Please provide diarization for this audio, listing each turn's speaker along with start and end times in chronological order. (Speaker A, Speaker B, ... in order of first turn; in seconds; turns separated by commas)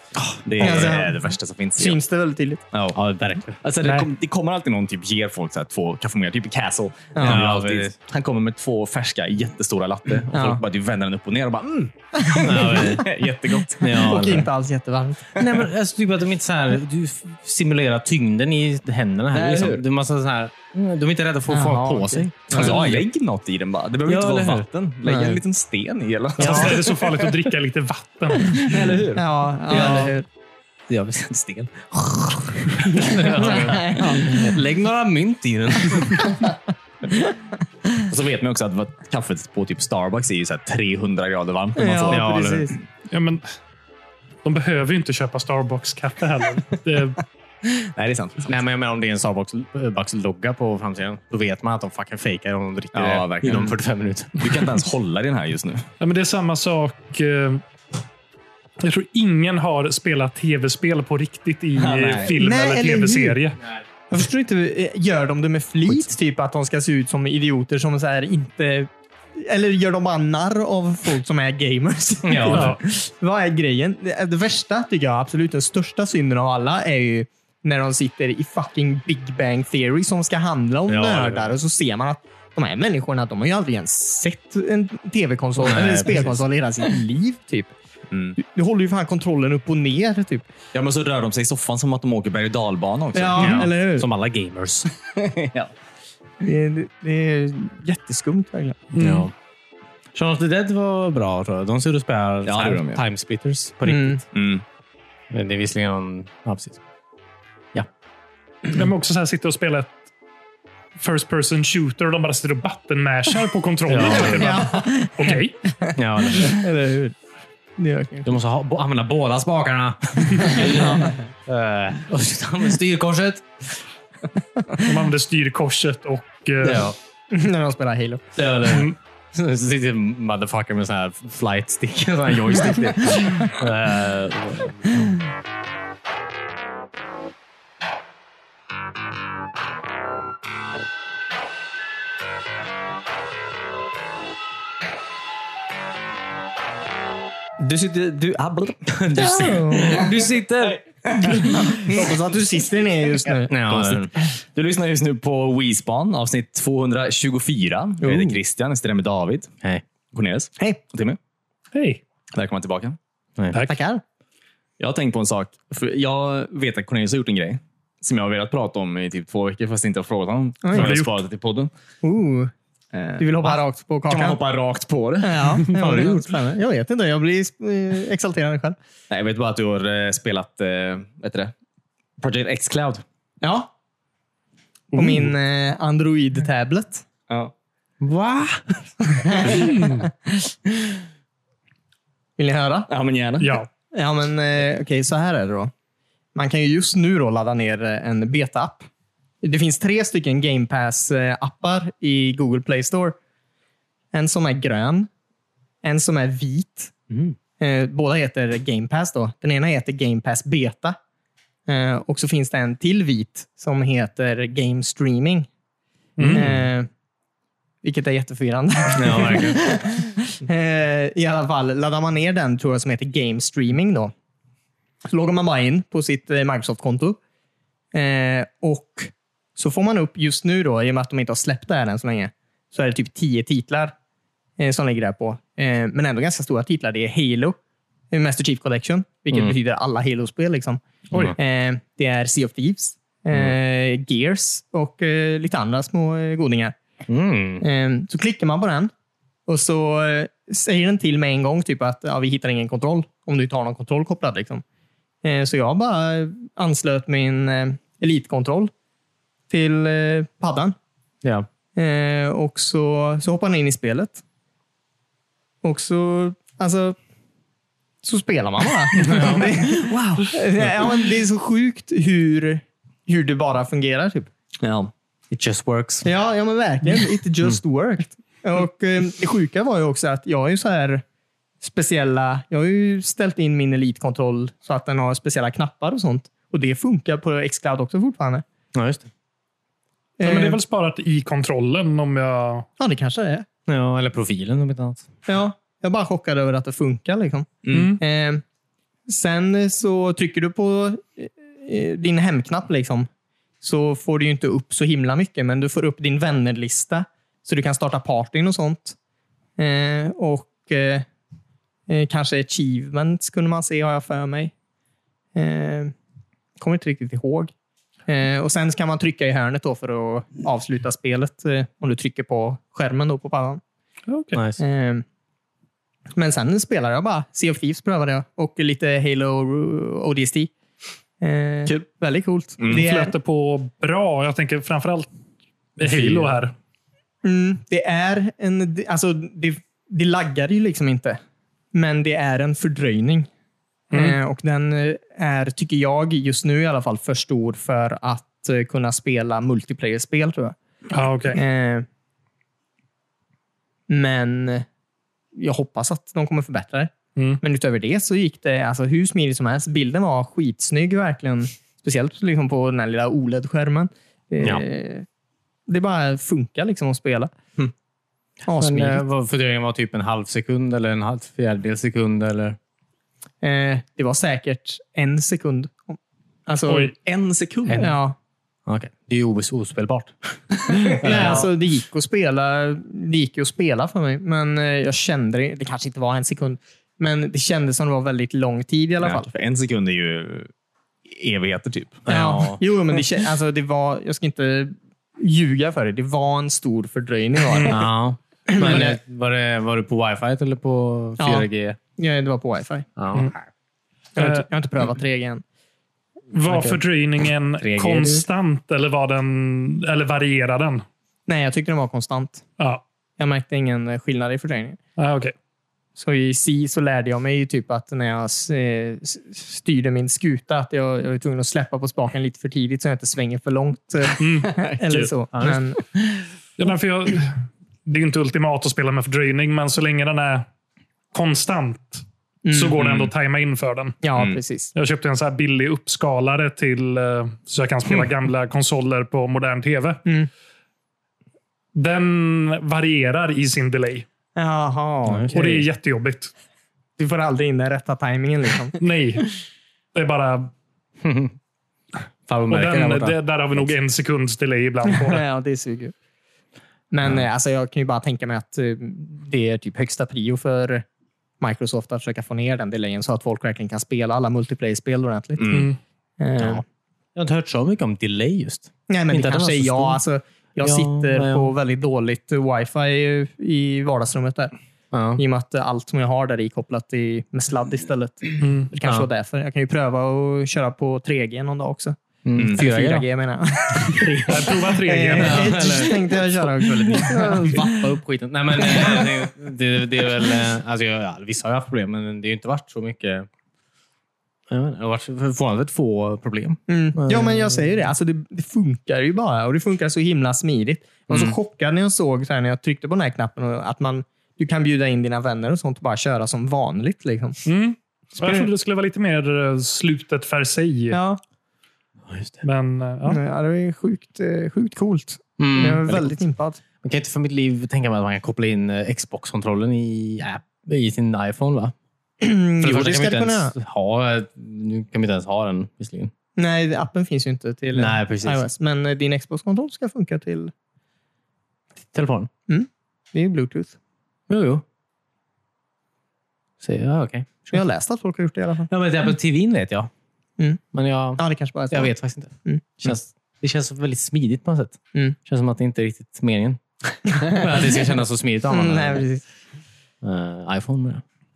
Speaker A: 0.2-0.9, Speaker B: 0.5-2.0, Speaker C: 0.6-1.2, Speaker C: 1.8-2.6, Speaker A: 2.9-3.6, Speaker B: 3.6-13.9, Speaker D: 3.8-4.1, Speaker C: 7.1-7.4, Speaker A: 7.2-8.0, Speaker C: 10.3-10.6, Speaker C: 12.2-13.0, Speaker A: 12.4-13.1, Speaker A: 13.8-14.5, Speaker C: 13.8-15.4, Speaker A: 15.3-23.1, Speaker B: 19.3-19.9, Speaker C: 21.5-22.9, Speaker B: 22.5-26.9, Speaker A: 24.1-24.6, Speaker C: 25.1-25.4, Speaker D: 26.4-28.6, Speaker C: 26.4-26.8, Speaker B: 28.6-30.1, Speaker C: 29.1-30.3, Speaker A: 29.7-30.1, Speaker A: 30.9-36.4, Speaker C: 33.2-34.5, Speaker C: 36.3-36.5, Speaker B: 38.1-42.3, Speaker C: 41.8-42.8, Speaker A: 42.1-42.7, Speaker D: 43.1-43.4, Speaker D: 44.4-47.2, Speaker B: 47.8-48.6, Speaker A: 48.5-54.6, Speaker B: 52.9-53.8, Speaker B: 54.4-55.9, Speaker D: 56.0-57.6, Speaker D: 58.8-63.6, Speaker B: 61.8-62.4, Speaker C: 62.3-63.4, Speaker C: 64.1-87.7, Speaker A: 72.2-72.8, Speaker D: 72.5-72.8, Speaker A: 80.9-81.6, Speaker A: 85.6-86.3, Speaker B: 88.1-88.4, Speaker C: 88.4-90.5, Speaker B: 90.7-93.7, Speaker C: 93.1-94.1, Speaker A: 93.4-94.9, Speaker B: 95.2-95.7, Speaker C: 96.4-98.8, Speaker D: 98.9-99.3, Speaker A: 99.0-99.3, Speaker A: 100.1-104.2, Speaker B: 102.5-103.0, Speaker C: 103.9-104.2, Speaker B: 104.3-104.6, Speaker A: 105.3-106.8, Speaker D: 108.7-110.0, Speaker D: 111.0-115.6, Speaker A: 113.9-114.6, Speaker C: 114.0-117.2, Speaker A: 116.0-116.6, Speaker C: 117.8-118.3, Speaker A: 118.2-123.5, Speaker C: 120.7-121.2, Speaker D: 124.8-126.9, Speaker A: 126.6-127.0, Speaker C: 127.3-128.2, Speaker A: 128.4-135.1, Speaker D: 128.7-128.9, Speaker B: 147.6-149.4, Speaker A: 148.9-150.8, Speaker C: 149.2-150.1, Speaker B: 150.0-152.1, Speaker C: 151.2-153.6, Speaker A: 153.5-154.1, Speaker B: 153.6-159.5, Speaker C: 158.0-158.4, Speaker B: 160.1-161.2, Speaker D: 161.7-162.0, Speaker B: 162.3-163.0, Speaker C: 163.7-164.0, Speaker B: 164.8-171.7, Speaker C: 170.6-171.0, Speaker D: 170.7-171.2, Speaker C: 172.0-172.5, Speaker B: 172.9-175.6, Speaker C: 173.2-174.4, Speaker C: 175.2-178.8, Speaker A: 175.7-176.3, Speaker B: 179.1-181.5, Speaker B: 182.2-183.0, Speaker C: 183.4-183.7, Speaker A: 184.9-185.3, Speaker C: 184.9-187.1, Speaker A: 188.0-188.9, Speaker C: 189.1-190.5, Speaker A: 189.4-189.8, Speaker D: 189.6-190.0, Speaker C: 192.4-192.9, Speaker B: 192.9-193.6, Speaker D: 193.4-193.7, Speaker C: 193.9-195.7, Speaker C: 196.3-198.9, Speaker C: 199.4-203.2, Speaker C: 204.1-205.1, Speaker C: 205.8-206.9, Speaker C: 207.6-211.0, Speaker C: 211.7-215.5, Speaker D: 216.2-216.5, Speaker A: 216.2-216.6, Speaker C: 216.3-216.9, Speaker C: 217.8-224.1, Speaker A: 219.0-219.7, Speaker C: 225.1-227.2, Speaker C: 227.9-233.9, Speaker C: 234.6-237.6, Speaker C: 238.1-240.8, Speaker A: 239.3-239.6, Speaker C: 241.4-246.8, Speaker A: 247.1-247.7, Speaker C: 247.6-248.9, Speaker C: 249.5-254.6, Speaker C: 255.2-258.7, Speaker C: 259.5-260.8, Speaker C: 261.8-264.2, Speaker C: 265.6-267.0, Speaker C: 268.0-274.3, Speaker A: 269.1-269.4, Speaker D: 269.1-269.4, Speaker B: 269.9-270.3, Speaker B: 274.6-274.9, Speaker A: 275.3-276.1, Speaker C: 276.0-281.0, Speaker C: 281.6-288.4, Speaker A: 288.7-289.1, Speaker C: 290.2-290.6, Speaker D: 290.2-292.7, Speaker C: 292.8-293.5, Speaker A: 293.7-295.1, Speaker C: 295.3-298.4, Speaker B: 297.6-297.9, Speaker D: 297.7-298.0, Speaker C: 299.1-303.1, Speaker C: 303.6-309.0, Speaker C: 309.6-311.1, Speaker C: 311.9-314.5, Speaker C: 315.4-315.9, Speaker C: 316.6-317.5, Speaker C: 318.1-323.6, Speaker D: 324.1-324.4, Speaker A: 324.3-324.6, Speaker C: 324.6-325.0, Speaker C: 326.1-330.5, Speaker C: 331.2-333.1, Speaker B: 332.6-332.9, Speaker D: 332.7-335.1, Speaker D: 335.8-336.5, Speaker C: 337.2-341.2, Speaker C: 341.7-343.3, Speaker D: 343.9-344.2, Speaker C: 343.9-350.6, Speaker D: 350.9-351.4, Speaker C: 351.3-351.9, Speaker C: 353.9-354.7, Speaker C: 355.4-365.1, Speaker D: 357.2-357.4, Speaker C: 365.7-367.3, Speaker C: 368.5-369.0, Speaker A: 368.5-372.6, Speaker C: 373.4-376.9, Speaker D: 376.7-376.9, Speaker B: 377.0-377.9, Speaker A: 377.7-377.9, Speaker C: 377.7-378.2, Speaker A: 378.7-380.1, Speaker A: 380.7-381.5, Speaker B: 380.7-381.4, Speaker C: 381.0-389.3, Speaker B: 389.0-390.5, Speaker B: 391.1-392.1, Speaker A: 392.1-392.6, Speaker C: 392.1-397.9, Speaker D: 397.4-397.8, Speaker A: 397.7-401.8, Speaker C: 398.5-399.0, Speaker C: 401.2-402.9, Speaker A: 403.0-403.4, Speaker C: 404.2-405.4, Speaker D: 404.2-404.5, Speaker D: 406.3-410.9, Speaker A: 406.5-406.8, Speaker A: 407.6-408.2, Speaker C: 411.3-412.4, Speaker C: 413.2-414.8, Speaker D: 415.0-415.3, Speaker C: 416.0-425.8, Speaker D: 424.2-425.1, Speaker A: 425.3-425.6, Speaker D: 426.6-430.5, Speaker D: 431.1-434.0, Speaker C: 432.4-432.8, Speaker C: 434.0-434.7, Speaker D: 434.7-440.0, Speaker D: 441.8-444.1, Speaker C: 444.4-445.6, Speaker A: 445.1-445.6, Speaker D: 445.3-446.3, Speaker C: 447.0-448.8, Speaker D: 448.8-449.3, Speaker D: 449.9-450.5, Speaker A: 451.0-451.4, Speaker A: 452.3-453.7, Speaker D: 452.5-455.2, Speaker C: 454.9-455.9, Speaker C: 456.9-460.9, Speaker C: 461.4-465.6, Speaker B: 465.4-465.7, Speaker D: 465.5-465.8, Speaker C: 466.2-466.6, Speaker A: 466.4-466.6, Speaker A: 467.1-470.0, Speaker C: 468.9-474.5, Speaker A: 470.6-471.5, Speaker A: 474.9-475.2, Speaker C: 475.2-482.0, Speaker D: 478.4-478.7, Speaker A: 478.8-479.1, Speaker A: 482.2-483.1, Speaker B: 482.4-482.6, Speaker C: 482.6-487.9, Speaker D: 484.2-485.8, Speaker A: 485.1-493.3, Speaker C: 488.6-489.1, Speaker A: 494.5-497.7, Speaker C: 496.7-507.4, Speaker A: 501.1-501.4, Speaker D: 507.5-511.0, Speaker C: 508.2-508.5, Speaker C: 510.9-511.2, Speaker A: 512.1-512.4, Speaker D: 512.4-513.2, Speaker C: 513.1-516.6, Speaker A: 515.4-516.2, Speaker A: 516.8-521.7, Speaker C: 522.2-523.5, Speaker A: 522.6-526.1, Speaker C: 526.4-530.5, Speaker A: 527.7-528.5, Speaker A: 531.9-532.3, Speaker C: 532.5-533.8, Speaker A: 534.3-534.6, Speaker A: 536.6-537.6, Speaker C: 537.5-538.7, Speaker A: 538.7-539.9, Speaker A: 540.7-549.0, Speaker C: 541.2-541.9, Speaker C: 548.5-549.2, Speaker A: 550.0-551.0